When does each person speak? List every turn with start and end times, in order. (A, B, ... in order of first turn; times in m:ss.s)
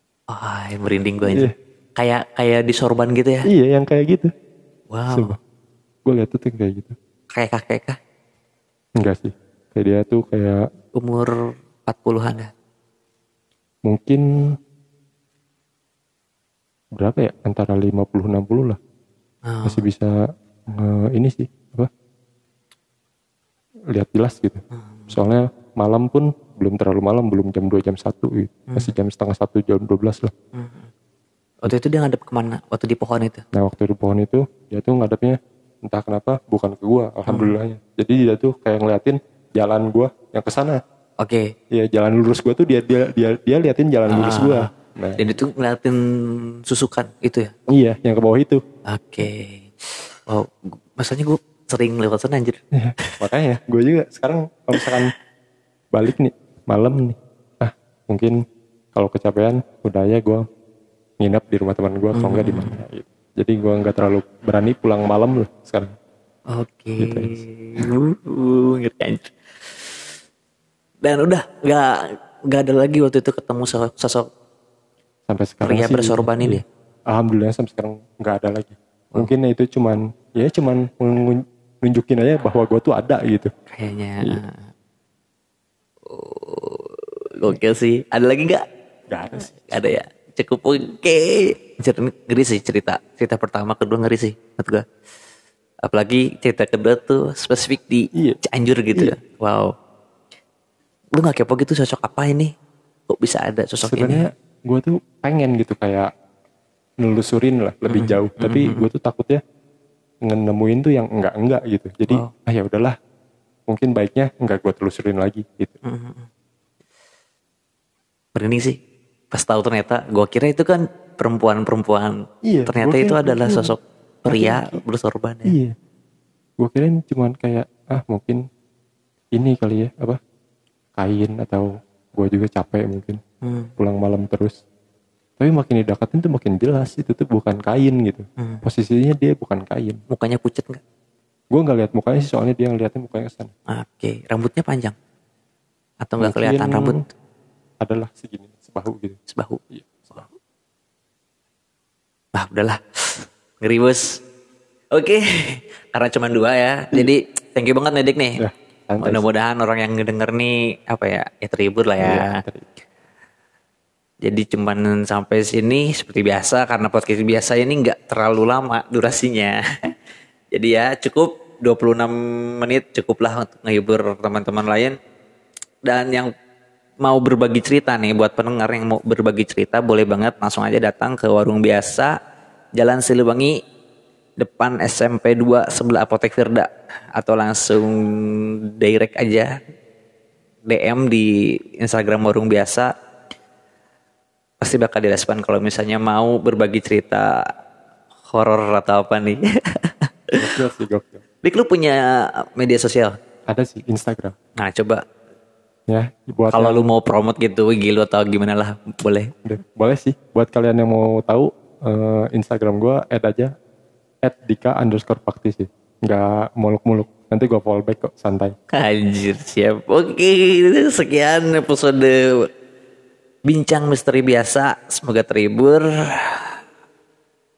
0:00.3-0:03.5 A
0:03.5-0:04.3 B
0:04.9-0:05.4 A
0:05.1-0:05.4 B
0:06.0-0:06.9 B
0:07.3-0:08.0 A
0:09.0-0:10.6 B
0:11.0-0:11.3 A
0:11.9-0:12.5 A
0:13.8-0:14.2 B
0:17.0-0:18.8 B
0:19.5-0:19.8 A
0:19.6-0:20.1 B
0:20.7-0:21.9 B
0:23.9-0:30.3 B
0:24.8-0:25.2 A
0:30.5-0:30.9 A
0:31.6-0:33.4 A
0:33.5-0:40.8 B
0:37.3-0:37.5 A
0:41.2-0:41.5 A
0:41.7-0:45.2 B
0:44.1-0:47.5 A
0:47.7-0:48.6 B
0:48.9-0:53.2 A
0:52.7-0:55.1 B
0:55.9-0:58.4 B
0:58.9-1:00.4 B
1:01.2-1:05.9 B
1:02.1-1:02.8 A
1:06.5-1:10.0 A
1:07.0-1:07.8 B
1:11.0-1:14.2 A
1:15.3-1:23.5 B
1:15.6-1:16.6 A
1:23.7-1:24.6 A
1:26.1-1:28.6 A
1:29.1-1:30.0 B
1:29.4-1:34.8 A
1:35.8-1:39.7 A
1:41.1-1:42.5 A
1:43.1-1:44.3 A
1:43.8-1:46.1 B
1:47.0-1:49.4 B
1:47.9-1:48.9 A
1:50.2-1:52.9 B
1:53.7-1:55.7 B
1:55.8-1:56.3 A
1:58.3-1:58.8 A
1:59.3-2:05.6 A
2:02.4-2:03.7 B
2:04.3-2:04.8 B
2:05.5-2:05.7 B
2:06.6-2:08.4 B
2:09.3-2:10.2 B
2:11.0-2:13.2 B
2:13.4-2:13.7 A
2:13.8-2:14.6 B
2:15.4-2:20.0 B
2:18.4-2:18.6 A
2:20.1-2:20.8 A
2:21.5-2:23.5 B
2:23.7-2:24.9 A
2:26.0-2:27.0 A
2:26.2-2:27.0 B
2:27.8-2:29.2 B
2:29.3-2:29.6 A
2:29.7-2:30.2 B
2:32.3-2:34.2 A
2:34.9-2:38.4 A
2:38.4-2:39.2 B
2:39.0-2:42.4 A
2:42.0-2:42.7 B
2:44.2-2:49.9 A
2:50.5-2:55.0 A
2:55.8-2:56.3 A
2:57.0-3:02.1 A
3:02.8-3:03.6 A
3:04.4-3:09.5 A
3:10.7-3:12.9 A
3:14.6-3:17.3 A
3:18.3-3:20.1 A
3:20.4-3:21.2 B
3:21.4-3:23.1 A
3:23.5-3:24.3 B
3:24.6-3:25.0 A
3:25.9-3:26.9 B
3:26.5-3:29.3 A
3:29.4-3:33.5 B
3:34.2-3:38.5 B
3:38.7-3:42.5 A
3:43.4-3:46.4 A